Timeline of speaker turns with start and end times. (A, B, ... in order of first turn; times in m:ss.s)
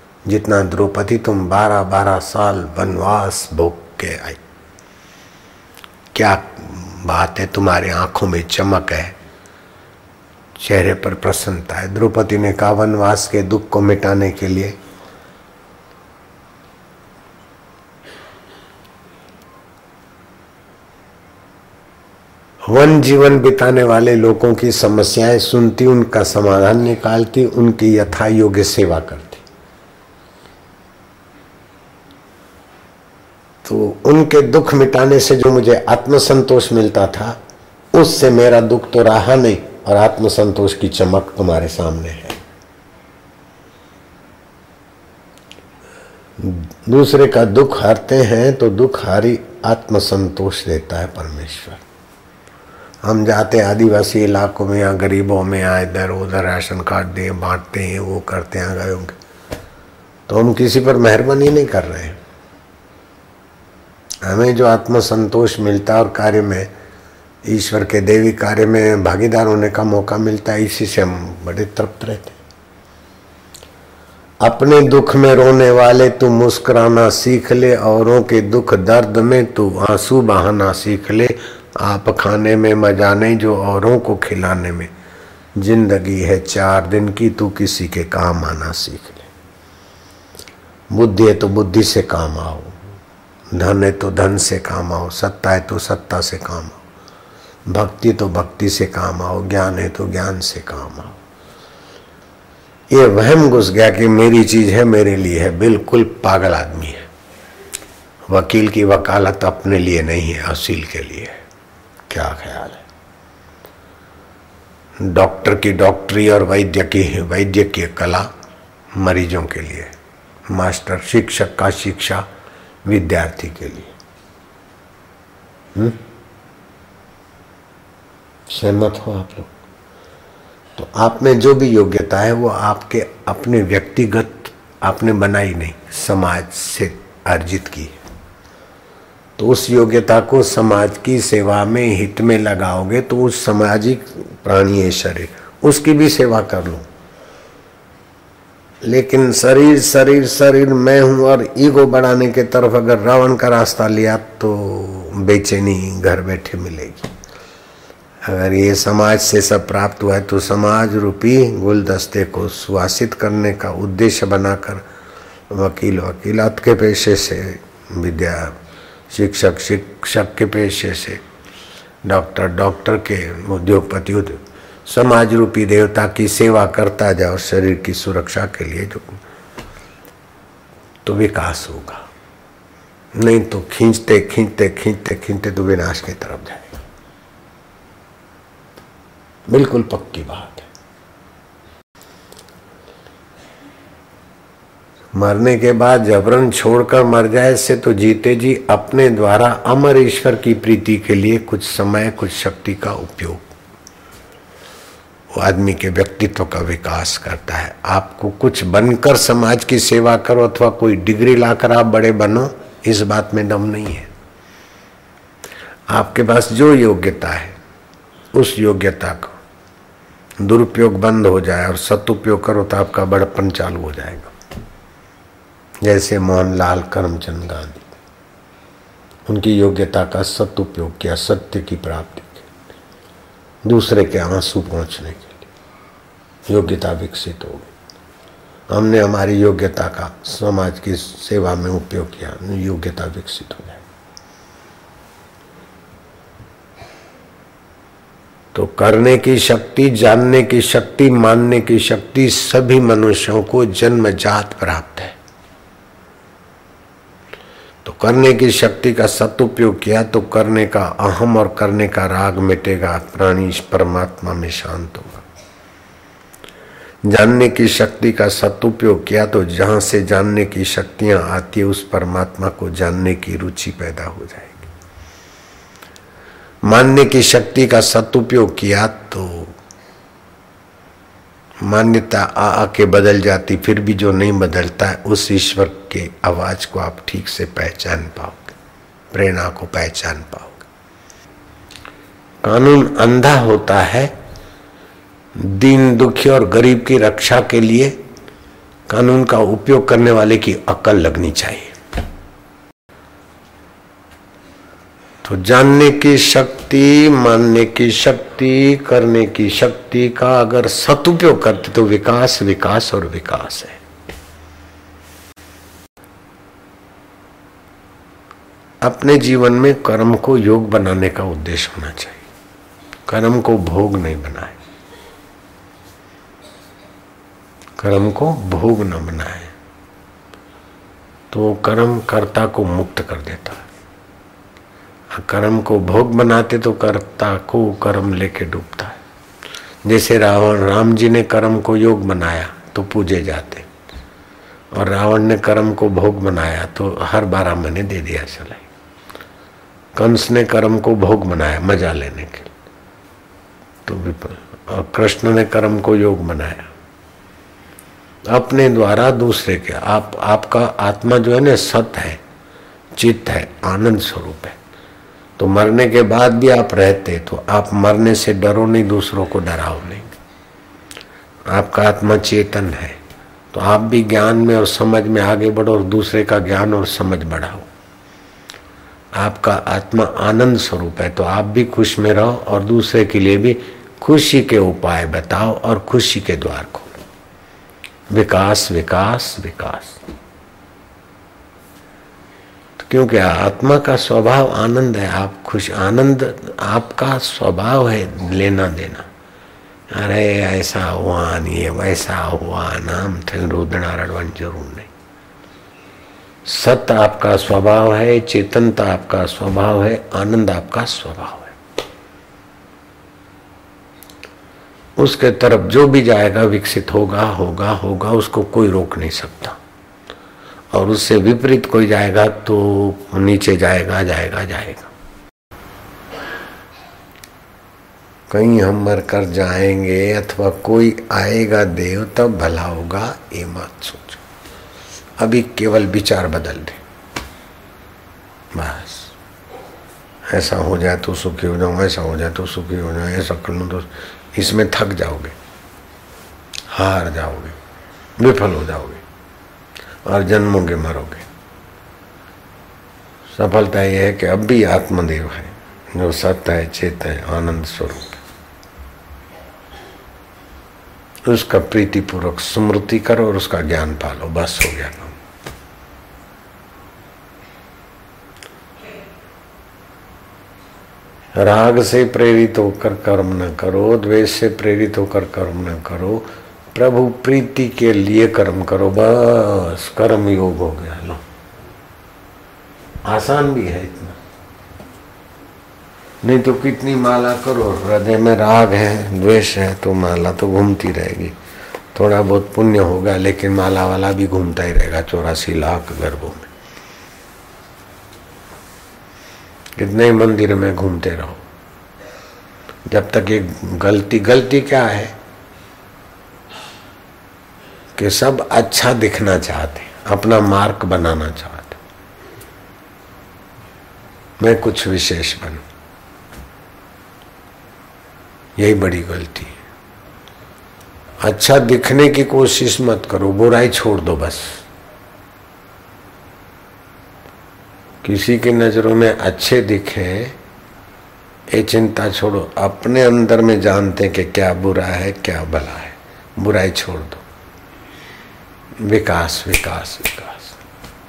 0:00.3-0:04.4 A
0:06.1-0:09.2 A
0:10.6-0:14.8 A
0:22.7-0:29.4 A
0:33.6-0:37.4 A
0:37.9-0:42.4 A
0:46.4-0:51.8 A
0:53.0-0:59.1 A
1:00.3-1:02.2 A
1:04.2-1:06.7 A
1:07.4-1:12.4 A
1:14.4-1:24.9 A
1:25.6-1:29.3 A
1:30.9-1:32.8 A
1:33.5-1:36.8 A
1:37.7-1:41.2 A
1:42.9-1:47.1 A
1:48.3-1:51.4 A
1:52.1-1:52.8 A
1:55.0-1:58.3 A
1:58.9-1:59.9 A
2:00.5-2:02.2 A
2:02.8-2:03.9 A
2:08.5-2:09.5 A
2:10.8-2:18.0 A
2:19.4-2:26.8 A
2:28.8-2:37.1 A
2:38.2-2:44.8 A
2:45.5-2:48.6 A
2:49.1-2:51.2 A
2:52.0-2:59.2 A
3:01.0-3:02.0 A
3:03.1-3:06.8 A
3:09.5-3:10.7 A
3:15.2-3:23.5 A
3:25.3-3:34.1 A
3:35.9-3:37.6 A
3:38.3-3:39.4 A
3:40.4-3:44.3 A
3:45.8-3:47.9 A
3:49.2-3:52.5 A
3:53.6-3:55.5 A
3:56.5-3:57.7 A
3:58.7-4:03.8 A
4:08.5-4:15.2 A
4:17.8-4:25.2 A
4:27.0-4:34.7 A
4:36.6-4:39.5 A
4:41.6-4:48.6 A
4:49.1-4:50.7 A
4:52.4-4:54.1 A
4:55.4-4:58.0 A
4:58.9-5:01.7 A
5:05.2-5:13.8 A
5:18.8-5:22.2 A
5:23.1-5:24.6 A
5:27.8-5:29.5 A
5:31.3-5:33.7 A
5:35.1-5:39.0 A
5:39.8-5:43.7 A
5:44.7-5:48.7 A
5:50.0-5:52.5 A
5:53.8-5:56.7 A
5:58.3-6:02.2 A
6:03.0-6:04.6 A
6:05.4-6:10.1 A
6:11.5-6:13.0 A
6:13.5-6:17.7 A
6:19.2-6:27.0 A
6:28.1-6:30.0 A
6:32.8-6:39.1 A
6:39.9-6:44.9 A
6:46.4-6:51.6 A
6:55.0-6:59.6 A
7:00.7-7:04.9 A
7:08.3-7:14.2 A
7:15.2-7:16.8 A
7:18.5-7:19.1 A
7:20.3-7:25.4 A
7:26.7-7:27.6 A
7:28.2-7:29.0 A
7:30.0-7:31.3 A
7:33.3-7:38.2 A
7:41.2-7:45.2 A
7:51.3-8:01.2 A
8:03.0-8:04.2 A
8:06.2-8:11.4 A
8:11.9-8:16.5 A
8:19.8-8:21.4 A
8:22.9-8:25.1 A
8:28.0-8:31.8 A
8:34.4-8:35.6 A
8:38.6-8:39.6 A
8:41.2-8:44.6 A
8:48.0-8:50.4 A
8:51.5-8:57.2 A
8:58.8-9:00.6 A